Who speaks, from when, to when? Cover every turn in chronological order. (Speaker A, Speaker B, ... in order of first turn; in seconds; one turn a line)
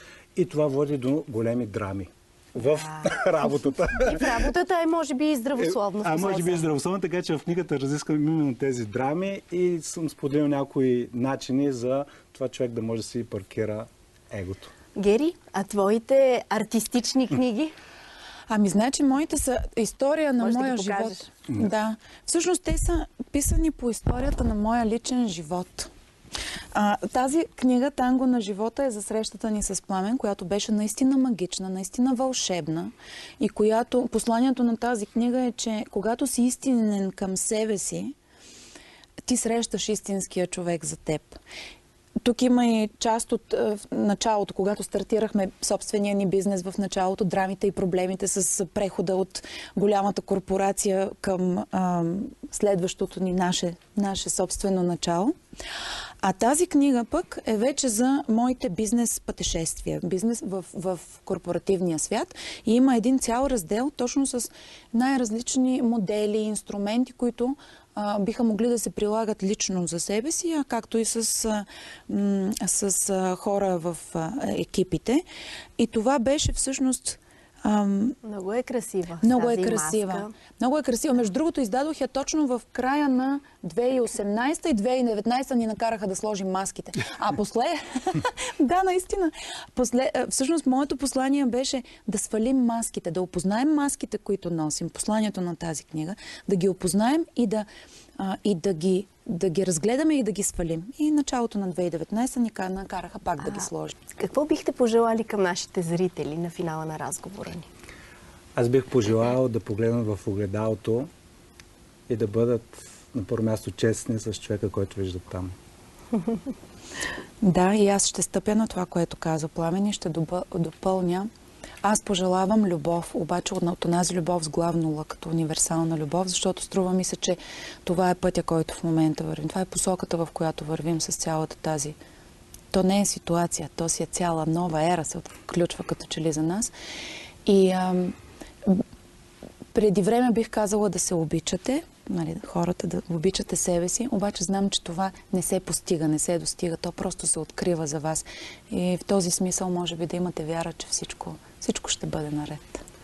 Speaker A: 0.3-4.5
Speaker B: 2.7-6.6
Speaker A: 5.6-14.7
Speaker B: 14.9-17.7
Speaker C: 18.5-25.9
Speaker B: 20.4-21.2
Speaker C: 26.7-38.1
Speaker C: 39.2-41.4
Speaker C: 42.2-55.3
Speaker C: 56.2-75.2
Speaker C: 75.8-78.2
Speaker B: 78.2-80.3
Speaker C: 79.2-97.7
Speaker C: 98.2-104.0
Speaker B: 104.1-107.7
Speaker A: 108.5-111.1
Speaker A: 112.1-115.5
Speaker C: 117.4-121.3
Speaker C: 121.8-132.0
Speaker C: 132.7-136.7
Speaker C: 137.4-138.8
Speaker C: 139.7-152.8